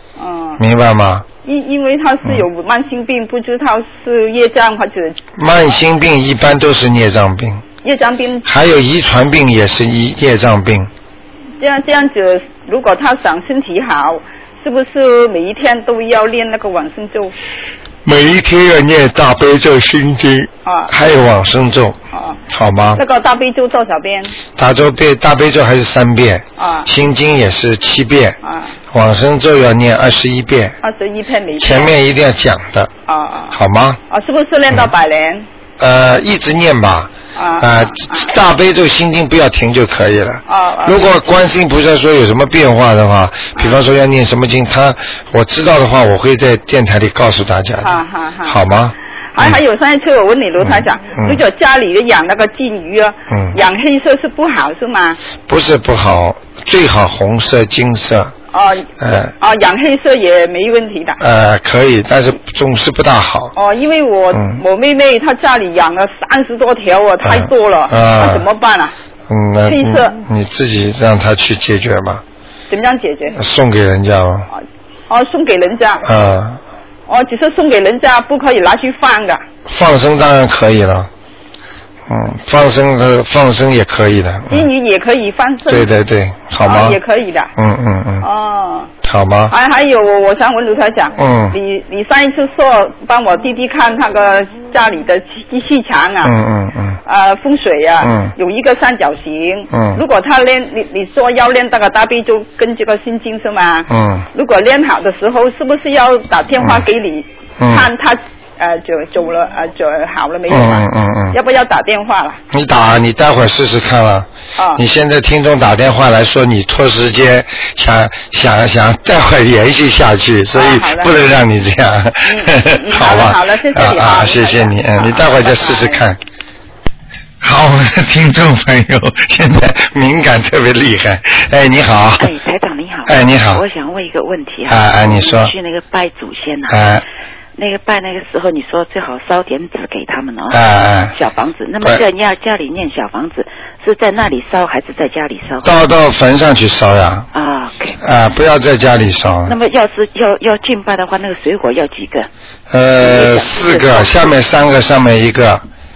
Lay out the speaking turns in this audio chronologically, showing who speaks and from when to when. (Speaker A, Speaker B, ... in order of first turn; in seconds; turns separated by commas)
Speaker A: 0.2-0.6, Speaker B: 0.6-1.3, Speaker A: 1.4-5.5, Speaker B: 5.4-7.6, Speaker A: 7.8-8.4, Speaker B: 8.4-10.9, Speaker A: 11.6-17.4, Speaker B: 18.0-23.0, Speaker A: 20.6-20.9, Speaker A: 22.1-22.4, Speaker A: 23.0-24.4, Speaker B: 24.6-28.4, Speaker A: 26.6-26.9, Speaker A: 28.4-28.7, Speaker B: 28.9-30.8, Speaker A: 30.8-31.9, Speaker B: 31.6-32.9, Speaker A: 33.1-33.6, Speaker B: 33.5-34.0, Speaker A: 34.1-35.5, Speaker B: 35.8-49.6, Speaker A: 37.4-38.3, Speaker A: 40.5-41.4, Speaker A: 47.8-48.6, Speaker A: 49.3-55.2, Speaker B: 50.6-51.4, Speaker B: 53.3-53.6, Speaker B: 55.5-58.3, Speaker A: 58.5-61.2, Speaker B: 59.0-59.3, Speaker B: 61.2-63.5, Speaker A: 63.5-69.0, Speaker B: 64.3-64.6, Speaker B: 67.2-68.5, Speaker B: 69.3-72.2, Speaker A: 69.7-70.2, Speaker A: 72.7-73.4, Speaker B: 73.3-74.5, Speaker A: 74.5-76.1, Speaker B: 76.0-76.6, Speaker A: 77.1-79.4, Speaker B: 79.7-81.1, Speaker B: 82.1-84.7, Speaker A: 84.5-85.9, Speaker B: 85.7-87.0, Speaker A: 86.6-87.5, Speaker B: 87.6-88.3, Speaker A: 88.2-88.9, Speaker B: 89.0-89.5, Speaker A: 89.5-96.3, Speaker B: 91.2-91.6, Speaker B: 96.2-97.0, Speaker A: 97.1-112.4, Speaker B: 98.0-98.3, Speaker B: 99.7-100.0, Speaker B: 103.9-104.3, Speaker B: 106.6-106.8, Speaker B: 107.6-107.9, Speaker B: 110.5-111.4, Speaker B: 112.5-126.2, Speaker A: 114.6-114.8, Speaker A: 120.5-121.1, Speaker A: 122.2-126.0, Speaker B: 127.4-132.3, Speaker C: 132.2-136.9, Speaker B: 133.1-133.6, Speaker B: 134.7-135.5, Speaker B: 136.7-137.0, Speaker C: 137.6-140.6, Speaker B: 140.5-141.2, Speaker C: 141.1-145.8, Speaker B: 145.6-147.3, Speaker C: 147.3-148.0, Speaker B: 148.0-149.6, Speaker C: 149.4-152.3, Speaker B: 152.7-155.7, Speaker C: 153.0-154.3